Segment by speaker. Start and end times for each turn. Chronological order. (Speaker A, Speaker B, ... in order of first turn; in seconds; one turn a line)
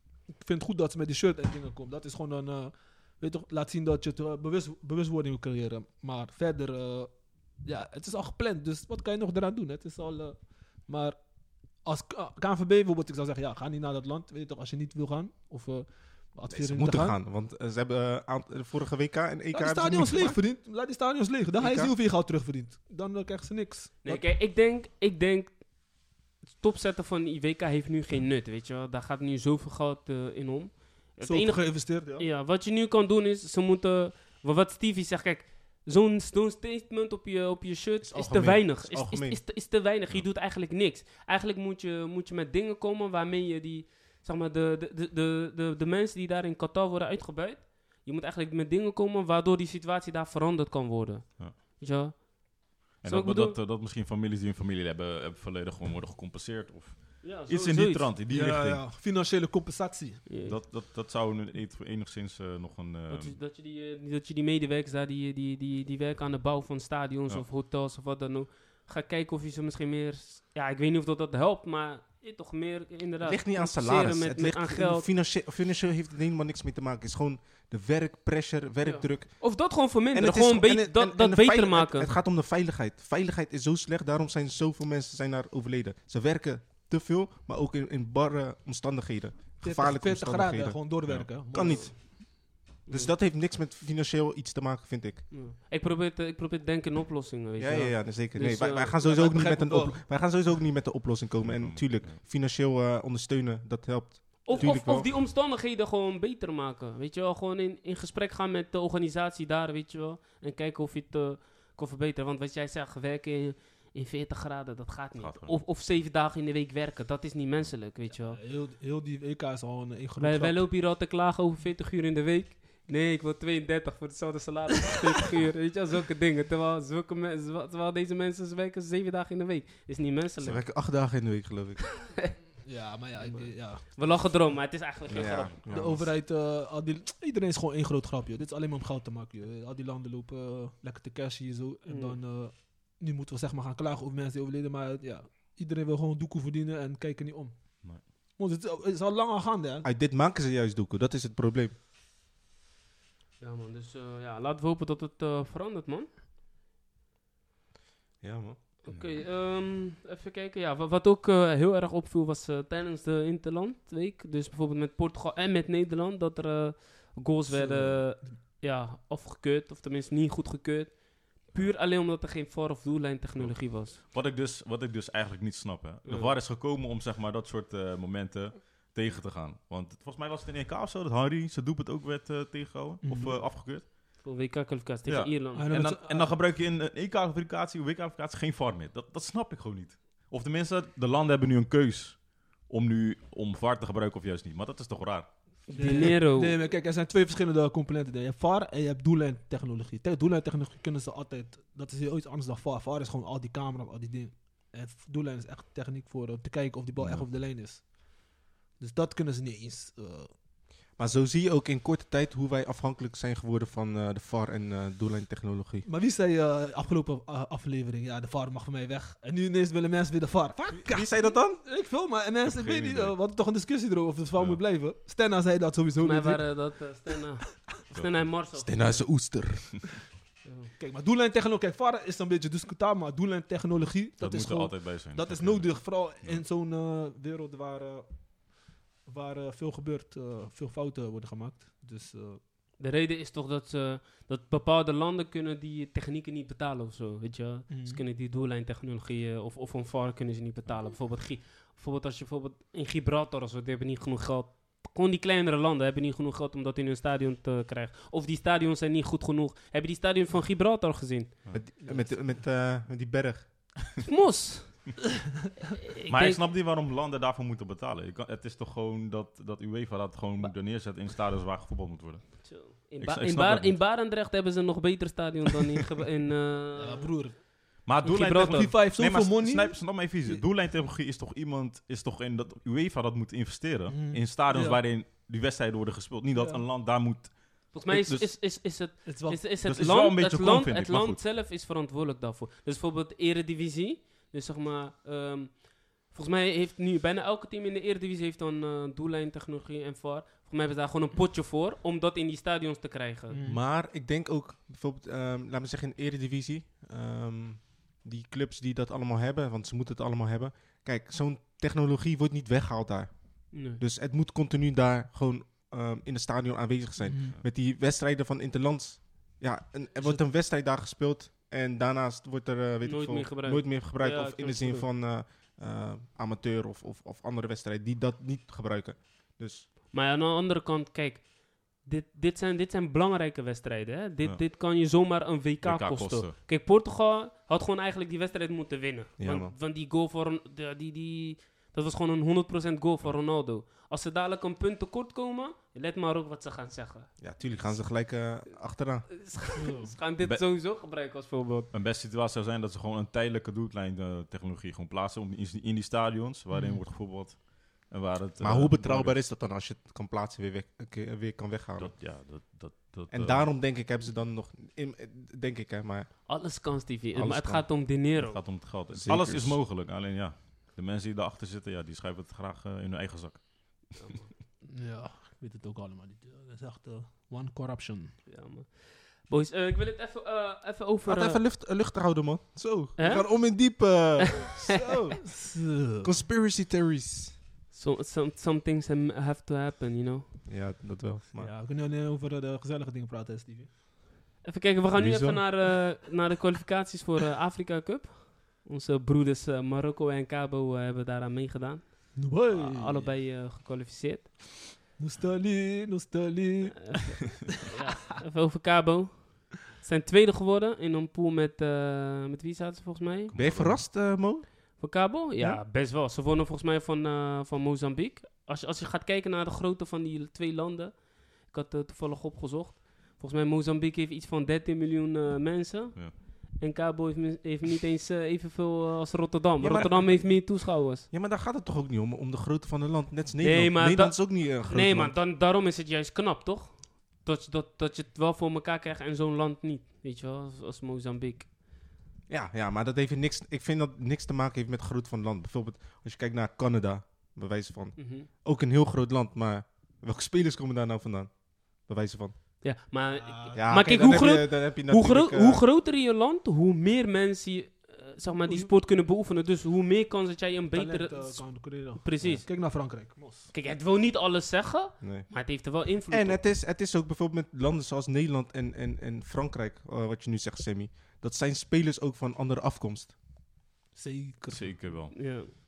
Speaker A: 0.3-17.1
Speaker B: 16.5-20.4
Speaker A: 19.5-24.2
Speaker B: 21.6-21.9
Speaker C: 24.0-53.6
Speaker A: 31.2-32.2
Speaker B: 38.0-39.4
Speaker D: 53.0-58.9
Speaker C: 57.2-58.1
Speaker A: 58.3-60.2
Speaker C: 60.3-60.6
Speaker D: 60.4-63.4
Speaker C: 63.1-75.1
Speaker B: 73.2-95.3
Speaker C: 78.8-82.1
Speaker A: 89.6-92.0
Speaker C: 91.6-91.9
Speaker C: 92.8-93.1
Speaker C: 95.3-99.0
Speaker B: 97.6-105.1
Speaker A: 99.0-100.1
Speaker D: 101.4-102.2
Speaker C: 104.4-118.4
Speaker D: 115.2-115.6
Speaker A: 118.1-120.7
Speaker C: 120.2-130.7
Speaker B: 130.4-131.9
Speaker C: 132.0-132.3
Speaker A: 132.6-134.2
Speaker C: 133.2-135.6
Speaker B: 135.1-136.1
Speaker A: 135.7-149.9
Speaker C: 141.9-142.2
Speaker B: 149.8-151.7
Speaker C: 153.4-156.1
Speaker B: 158.2-158.6
Speaker C: 158.8-174.0
Speaker D: 158.9-159.2
Speaker A: 167.5-168.4
Speaker D: 173.4-183.9
Speaker C: 176.1-176.3
Speaker A: 183.0-183.3
Speaker C: 184.2-185.7
Speaker D: 185.1-196.1
Speaker A: 185.5-186.3
Speaker C: 195.7-196.6
Speaker A: 195.7-210.3
Speaker B: 210.9-215.8
Speaker A: 215.8-227.0
Speaker B: 220.7-221.6
Speaker D: 222.4-223.2
Speaker D: 224.3-224.6
Speaker C: 226.0-229.1
Speaker D: 227.9-228.2
Speaker B: 228.5-230.0
Speaker C: 230.4-230.7
Speaker A: 230.8-242.4
Speaker D: 234.2-236.4
Speaker C: 242.8-261.7
Speaker A: 247.7-248.0
Speaker B: 261.5-263.8
Speaker C: 264.0-265.0
Speaker C: 265.9-266.5
Speaker D: 266.1-273.8
Speaker C: 272.4-277.4
Speaker A: 276.8-277.4
Speaker D: 277.8-288.3
Speaker C: 278.0-278.7
Speaker A: 278.3-280.4
Speaker A: 283.9-284.8
Speaker A: 286.3-286.6
Speaker C: 287.7-303.4
Speaker A: 289.0-289.4
Speaker D: 289.6-291.2
Speaker A: 303.3-303.6
Speaker B: 303.4-329.7
Speaker C: 313.5-313.8
Speaker A: 317.0-317.4
Speaker C: 322.8-324.9
Speaker C: 329.9-347.8
Speaker D: 335.6-336.3
Speaker B: 339.2-339.5
Speaker B: 347.2-349.2
Speaker C: 349.1-351.7
Speaker A: 349.6-349.9
Speaker D: 351.7-359.2
Speaker A: 356.5-356.8
Speaker B: 358.4-362.1
Speaker D: 361.8-363.5
Speaker B: 363.1-367.7
Speaker C: 366.2-368.5
Speaker D: 368.1-374.0
Speaker B: 368.9-369.6
Speaker C: 373.9-374.3
Speaker A: 374.7-378.2
Speaker C: 378.2-381.4
Speaker B: 381.0-387.4
Speaker C: 383.0-384.0
Speaker A: 385.2-386.1
Speaker C: 387.7-390.3
Speaker B: 390.4-391.5
Speaker A: 391.4-393.7
Speaker C: 394.4-404.6
Speaker B: 394.9-395.8
Speaker A: 402.1-403.1
Speaker A: 405.0-407.4
Speaker C: 406.9-413.3
Speaker D: 413.3-413.8
Speaker B: 413.3-414.5
Speaker C: 414.8-431.1
Speaker B: 429.6-435.2
Speaker C: 433.4-441.5
Speaker B: 442.3-452.4
Speaker C: 447.9-448.3
Speaker C: 452.6-462.5
Speaker A: 453.1-454.1
Speaker B: 453.5-455.6
Speaker A: 460.7-463.5
Speaker C: 463.5-466.4
Speaker B: 465.0-473.2
Speaker A: 473.9-475.0
Speaker D: 474.5-475.1
Speaker C: 475.1-475.5